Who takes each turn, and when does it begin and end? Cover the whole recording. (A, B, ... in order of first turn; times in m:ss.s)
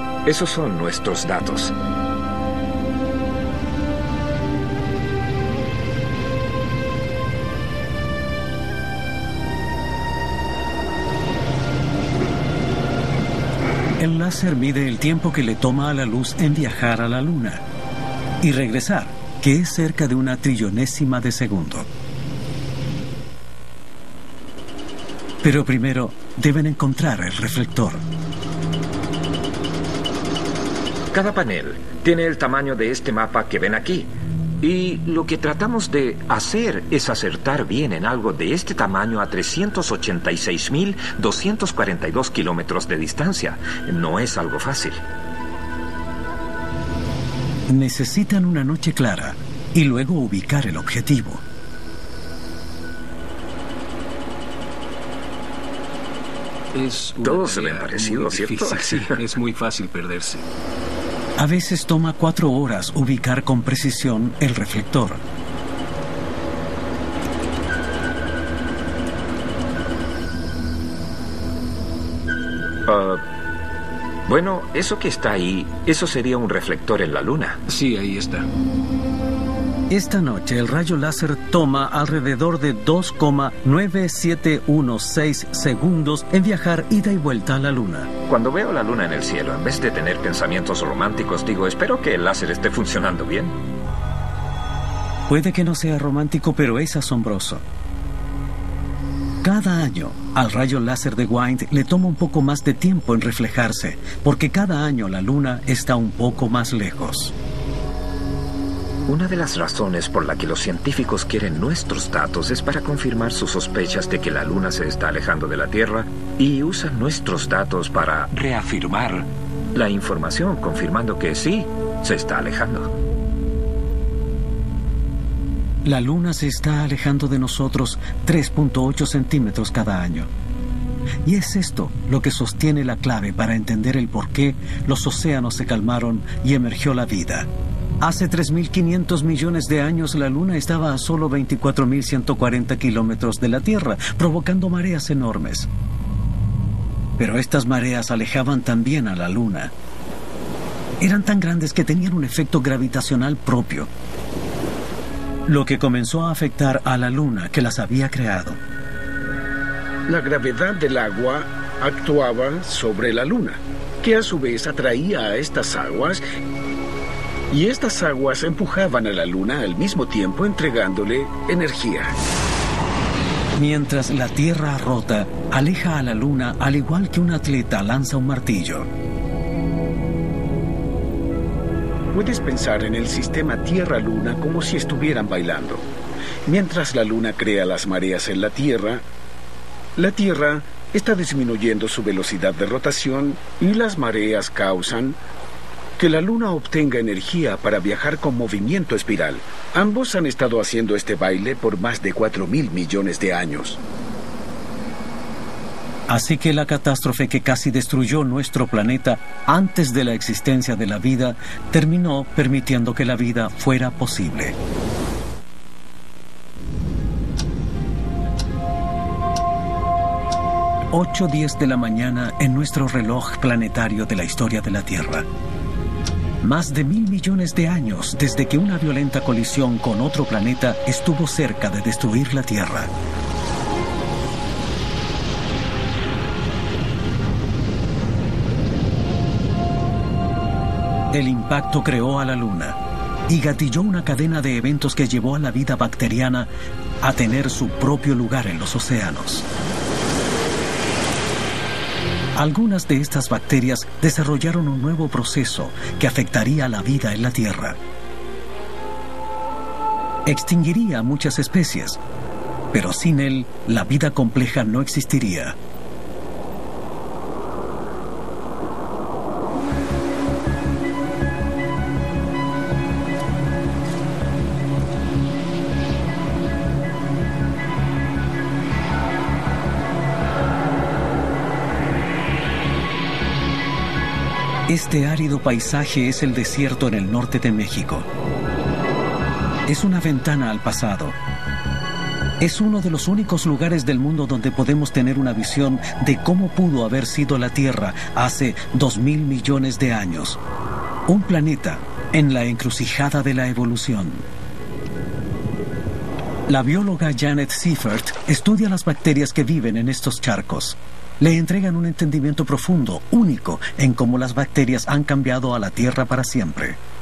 0:00.2-0:01.7 A
0:14.0-0:17.6 B
0:18.4-0:21.9 B
0:25.4-0:28.0 B
0:31.1-0:45.0 A
0:47.7-0:51.4 B
0:56.7-1:00.4 C
0:57.2-0:59.2 A
1:01.4-1:05.2 B
1:12.9-1:13.2 A
1:14.3-1:17.6 A
1:17.7-1:18.4 C
1:19.9-1:28.1 B
1:28.3-1:33.6 A
1:35.3-1:37.6 B
1:39.4-1:47.4 B
1:49.1-2:02.9 A
2:05.8-2:10.3 B
2:11.2-2:17.5 B
2:18.0-2:25.7 B
2:27.2-2:29.7 B
2:31.0-2:33.9 B
2:35.5-2:38.6 B
2:40.1-2:46.2 C
2:47.5-2:52.2 C
2:53.6-2:58.9 B
3:02.1-3:05.9 C
3:06.5-3:09.0 C
3:10.0-3:15.2 C
3:16.0-3:23.8 C
3:26.1-3:34.6 B
3:40.9-3:45.3 B
3:46.4-3:52.9 B
4:01.1-4:06.5 B
4:07.0-4:09.5 B
4:12.4-4:17.8 B
4:20.3-4:22.0 B
4:22.7-4:25.6 B
4:44.7-4:48.1 B
4:49.7-4:51.2 B
4:52.4-5:00.4 B
5:01.1-5:04.3 B
5:06.5-5:16.8 B